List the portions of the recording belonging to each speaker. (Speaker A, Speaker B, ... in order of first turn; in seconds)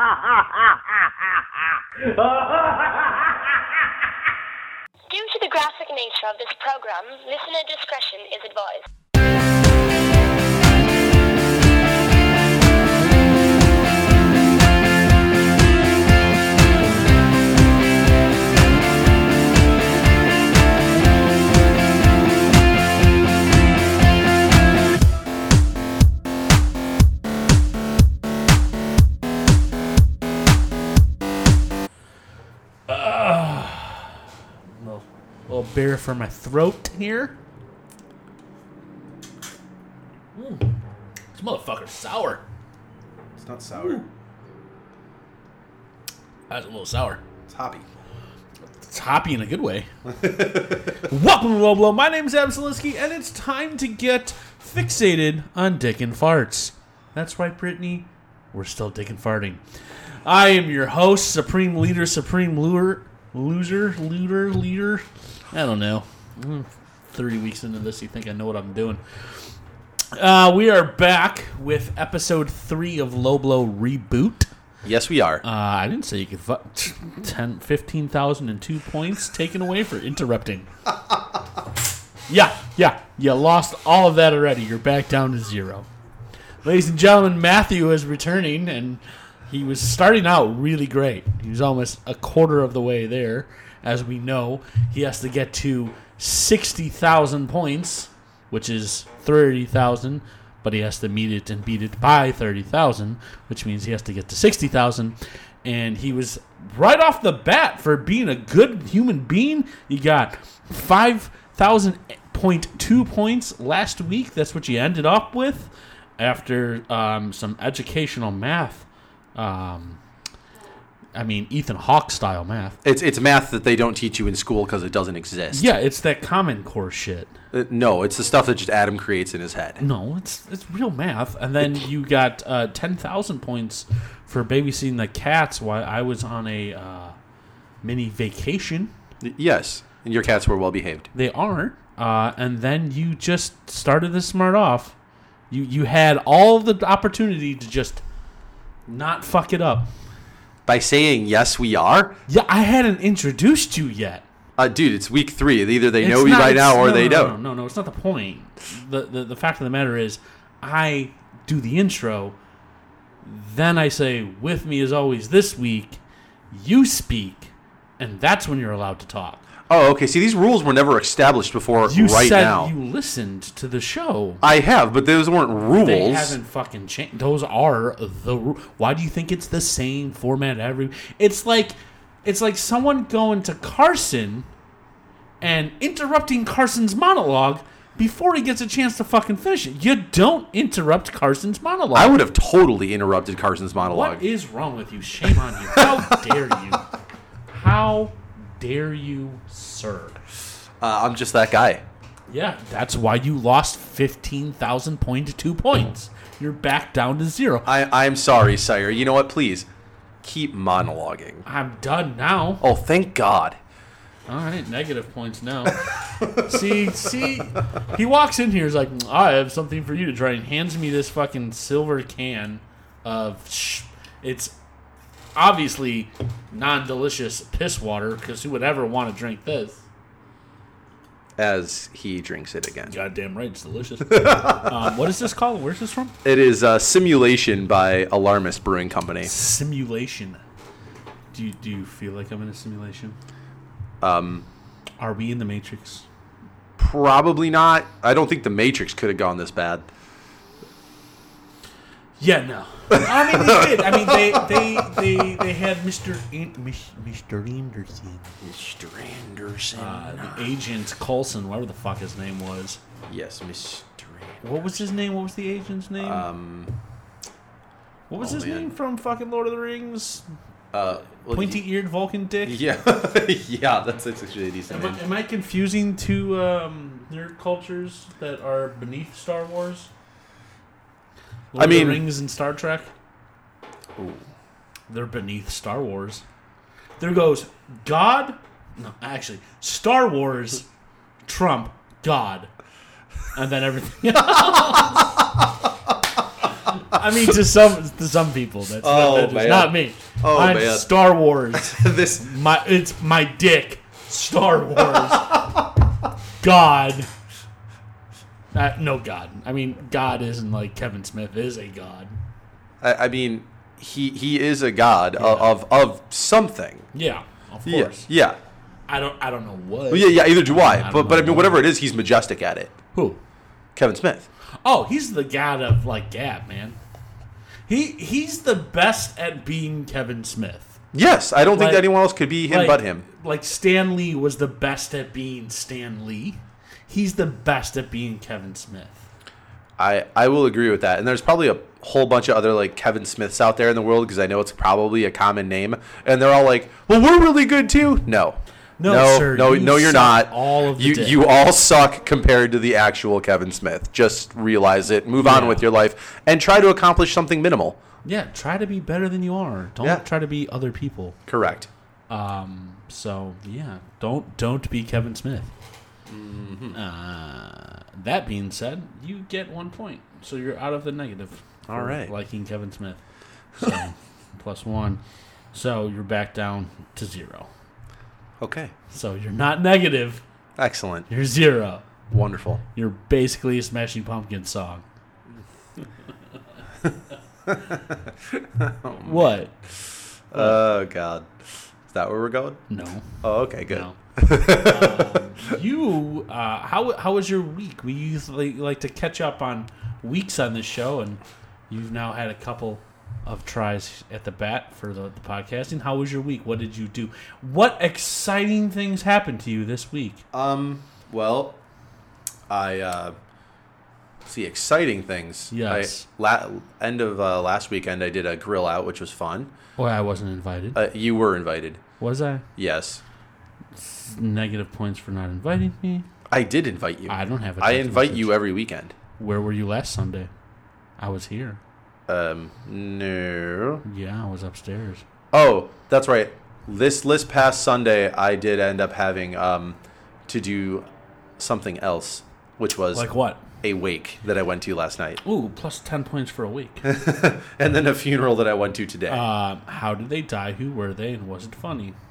Speaker A: 5.1-8.9
Speaker B: 32.9-34.2, 34.8-37.4, 40.4-40.7, 41.4-42.4, 43.7-44.1, 46.5-47.2, 48.8-49.9, 51.0-59.6, 60.2-69.0, 70.2-74.5, 75.4-80.7, 82.3-85.9, 86.6-120.0, 121.2-122.8, 125.5-127.3, 129.8-137.2, 137.8-138.9, 141.1-144.9, 145.5-148.0, 148.9-149.9, 152.3-154.2, 156.0-162.3, 163.2-166.0, 166.5-169.4, 171.9-174.4, 175.8-184.5, 185.4-192.2, 193.8-196.9, 197.5-200.2, 202.3-207.7, 211.4-212.7, 214.3-224.5, 225.3-229.8, 232.9-236.1, 239.2-240.4, 241.3-243.2, 245.0-246.1, 252.2-258.4, 259.8-262.8, 264.4-266.3, 268.1-270.2, 271.3-272.6, 274.7-279.9, 281.5-282.9, 284.9-286.2, 287.0-290.7, 291.3-292.5, 293.3-295.2, 296.7-305.5, 306.4-307.1, 308.5-312.2, 315.2-315.5, 316.9-318.1, 318.9-321.7, 322.9-323.2, 324.6-326.8, 327.7-330.8, 331.5-331.9, 332.5-339.1, 348.8-351.2, 355.2-355.7, 358.0-361.2, 362.1-365.5, 366.7-373.0, 373.6-375.0, 375.5-377.5, 378.9-380.2, 381.1-381.9, 382.7-384.8, 389.0-389.5, 390.3-390.6, 392.7-410.2, 415.5-416.1, 419.8-420.8, 422.0-422.4, 423.8-426.1, 427.1-428.4, 429.2-430.3, 431.0-431.6, 433.9-435.0, 442.9-443.4, 445.2-446.9, 449.1-452.0
Speaker C: 43.4-44.0, 47.5-47.9, 50.0-51.0, 74.8-75.4, 122.8-125.7, 127.5-129.8, 139.2-141.1, 150.7-152.2, 154.6-157.4, 169.7-172.7, 174.4-176.4, 191.9-194.2, 195.7-196.2, 200.8-201.8, 207.7-209.7, 210.2-211.4, 212.6-213.6, 231.4-232.9, 234.1-234.7, 236.2-239.3, 244.0-244.5, 246.8-249.9, 252.9-255.3, 258.4-260.5, 263.1-264.4, 266.0-266.8, 268.2-268.7, 270.7-271.6, 272.4-275.0, 281.6-282.0, 284.0-284.2, 294.3-295.7, 298.8-300.9, 301.5-302.3, 304.9-305.4, 312.8-316.9, 317.6-318.4, 319.9-322.7, 323.8-324.3, 330.9-333.1, 339.8-357.8, 361.3-361.7, 366.1-366.8, 371.7-372.1, 378.4-378.7, 380.6-381.1, 382.1-382.6, 387.5-389.3, 390.3-391.3, 391.9-392.6, 393.2-395.3, 410.3-411.6, 412.5-413.2, 414.2-419.5, 420.8-421.8, 422.6-423.0, 426.3-428.9, 432.1-433.8, 435.3-440.9, 441.4-443.1, 443.6-445.2, 446.8-449.2